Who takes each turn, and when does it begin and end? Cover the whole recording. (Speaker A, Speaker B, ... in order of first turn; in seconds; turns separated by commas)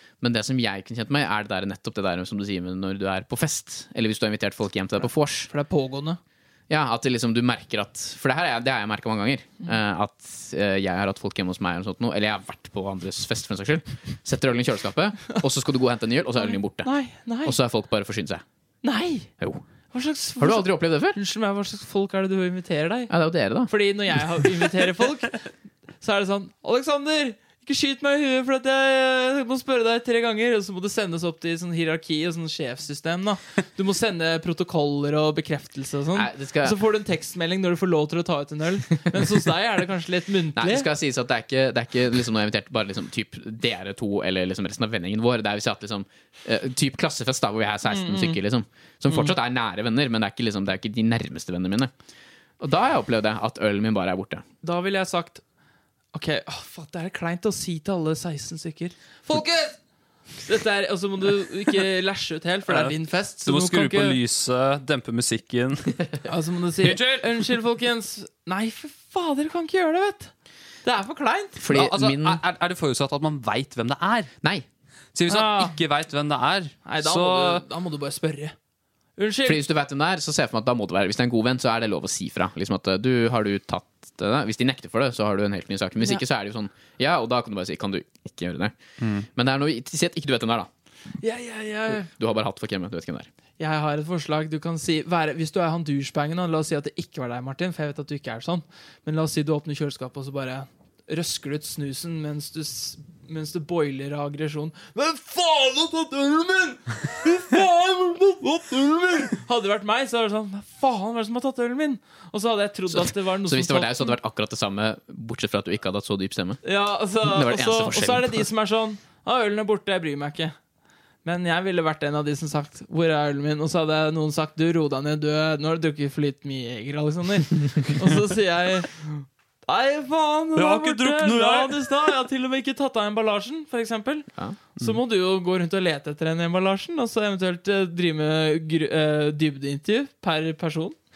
Speaker A: 0.2-5.5, Speaker B: 5.5-6.2, Speaker A: 6.7-16.9, Speaker B: 16.4-17.6, Speaker A: 17.4-18.4, Speaker B: 18.8-19.3, Speaker B: 19.9-23.1, Speaker A: 20.4-21.2, Speaker A: 23.1-23.7, Speaker B: 23.7-25.5, Speaker B: 26.0-40.9, Speaker A: 36.1-36.8, Speaker A: 40.6-51.9, Speaker B: 47.9-48.4, Speaker B: 49.1-49.4, Speaker A: 52.6-54.4, Speaker B: 54.6-55.4, Speaker B: 56.1-59.8, Speaker B: 60.4-64.2, Speaker C: 62.7-66.0, Speaker B: 66.2-70.3, Speaker B: 70.8-71.6, Speaker A: 71.6-72.4, Speaker C: 71.7-74.3, Speaker C: 75.1-77.6, Speaker B: 75.3-75.8, Speaker B: 76.9-78.5, Speaker B: 79.2-79.6, Speaker A: 79.5-88.8, Speaker C: 89.0-89.3, Speaker A: 89.3-90.7, Speaker B: 91.2-92.1, Speaker A: 92.0-93.3, Speaker B: 93.6-114.1, Speaker A: 112.9-116.6, Speaker B: 116.6-120.6, Speaker A: 117.2-118.5, Speaker B: 121.2-141.0, Speaker C: 130.6-132.1